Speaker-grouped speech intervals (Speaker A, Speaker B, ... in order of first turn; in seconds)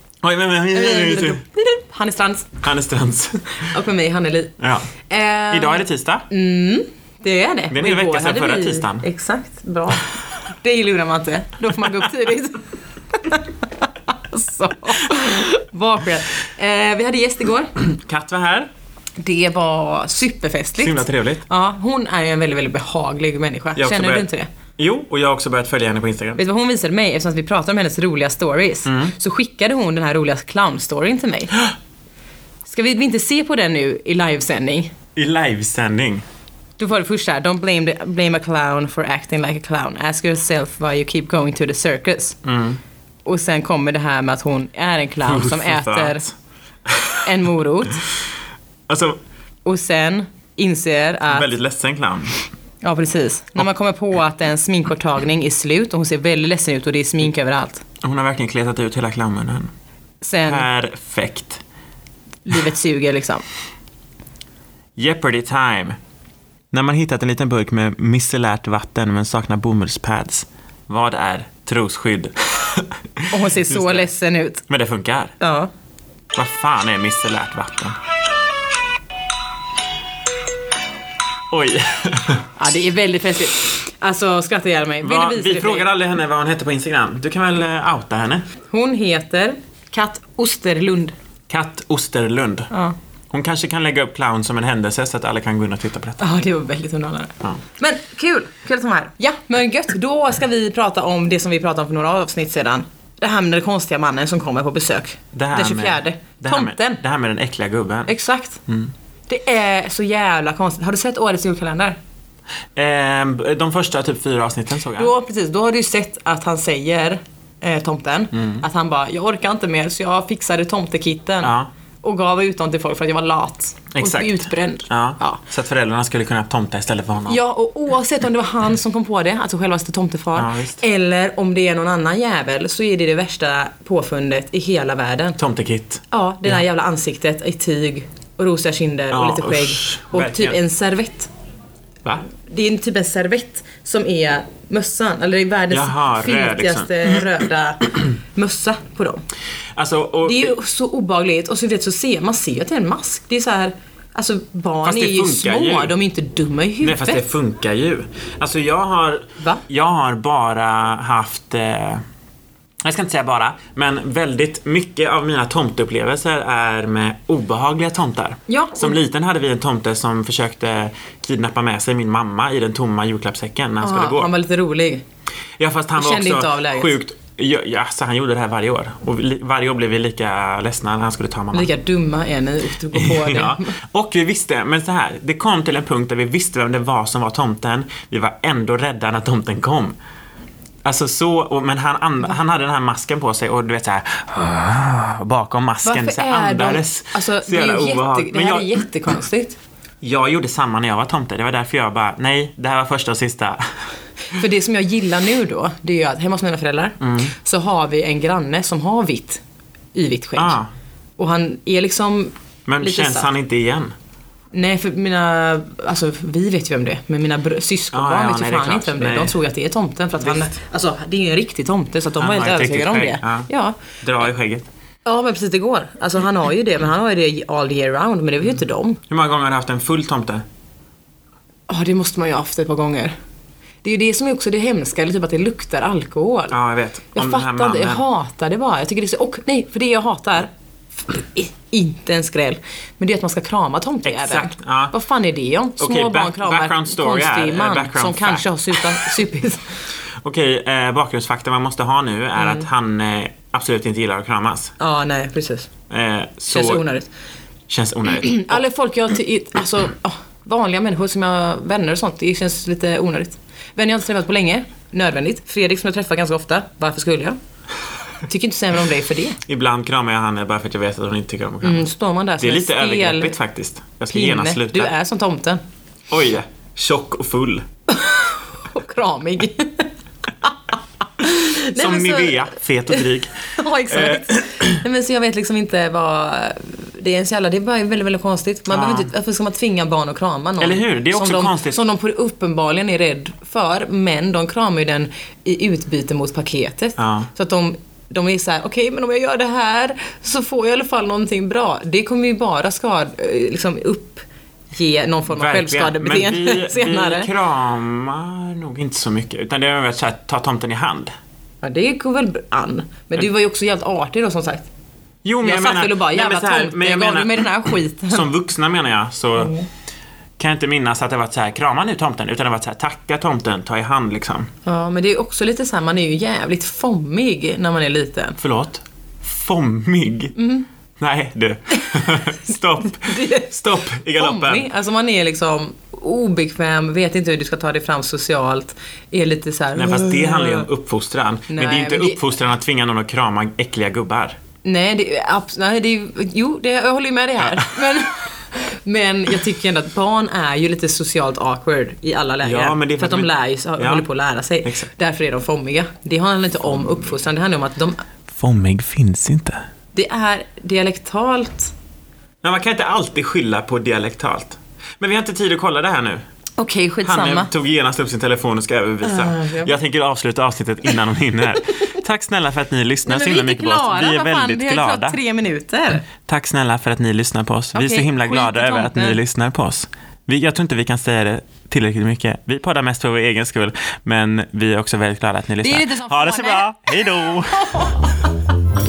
Speaker A: 0.2-1.4, 2.6-3.6, 5.5-6.3, 7.7-9.0, 17.8-18.7, 20.8-21.4, 23.8-26.4, 28.9-29.1, 35.1-36.2, 42.4-42.8, 45.2-46.3, 46.9-47.2, 48.9-49.2, 51.3-52.4, 58.0-59.7, 60.4-61.6, 65.0-66.0, 66.7-74.1, 74.7-75.3, 76.3-78.0, 81.5-82.5, 85.0-88.5, 91.5-92.7, 93.3-96.2, 105.3-108.1, 108.7-108.9, 112.8-115.1, 118.3-118.6, 121.4-121.7, 123.9-127.4, 130.3-130.8, 135.4-136.6, 139.1-140.6, 145.7-147.2, 149.7-150.5, 154.8-155.9, 156.8-162.0, 162.8-174.3, 175.6-181.7, 182.9-189.9, 190.8-198.8, 200.0-203.6, 207.0-207.3, 210.3-210.7, 212.7-213.9, 217.9-219.3, 220.2-220.4, 222.2-223.5, 224.0-224.6, 229.1-230.4, 236.5-238.0, 244.0-244.9, 245.8-249.1, 250.2-254.7, 255.9-256.8, 257.7-258.6, 269.4-271.9, 272.4-274.9, 276.1-277.6, 281.7-283.3, 283.9-284.8, 288.7-289.1, 290.6-291.8, 297.0-297.3, 305.3-311.1, 315.2-319.5, 320.4-324.5, 328.4-330.3, 331.0-334.7, 339.7-344.4, 347.4-347.7, 352.4-354.1, 354.6-354.9, 358.3-359.6, 362.4-366.2, 367.0-375.2, 376.2-388.0
Speaker B: 0.7-2.6, 3.7-4.5, 5.1-17.7, 19.2-24.5, 26.4-31.7, 32.7-34.9, 36.8-42.4, 43.2-46.2, 47.2-48.0, 49.6-51.5, 52.8-57.8, 60.2-60.7, 62.5-63.4, 73.3-74.6, 75.4-75.7, 82.6-85.9, 88.7-91.1, 96.2-107.0, 108.1-108.6, 109.3-112.0, 115.0-125.4, 127.3-135.4, 136.1-141.3, 142.3-149.2, 150.2-157.2, 168.5-169.0, 173.8-175.0, 176.0-177.0, 181.5-183.7, 195.8-199.6, 204.3-209.4, 209.9-210.6, 211.2-213.3, 214.5-223.8, 225.0-229.0, 231.7-233.1, 233.8-236.5, 237.1-240.5, 241.0-249.8, 252.4-252.7, 254.8-255.7, 256.5-257.1, 258.1-267.4, 268.2-269.4, 271.6-273.3, 274.1-275.6, 277.9-279.9, 281.2-282.4, 283.6-307.3, 311.6-314.7, 315.4-318.3, 319.4-319.6, 324.6-328.4, 330.4-330.7, 333.0-333.6, 334.1-340.7, 341.5-342.2, 344.6-358.0, 359.9-361.7, 366.6-367.5, 369.0-369.8, 373.0-376.1, 377.7-379.2, 385.6-388.2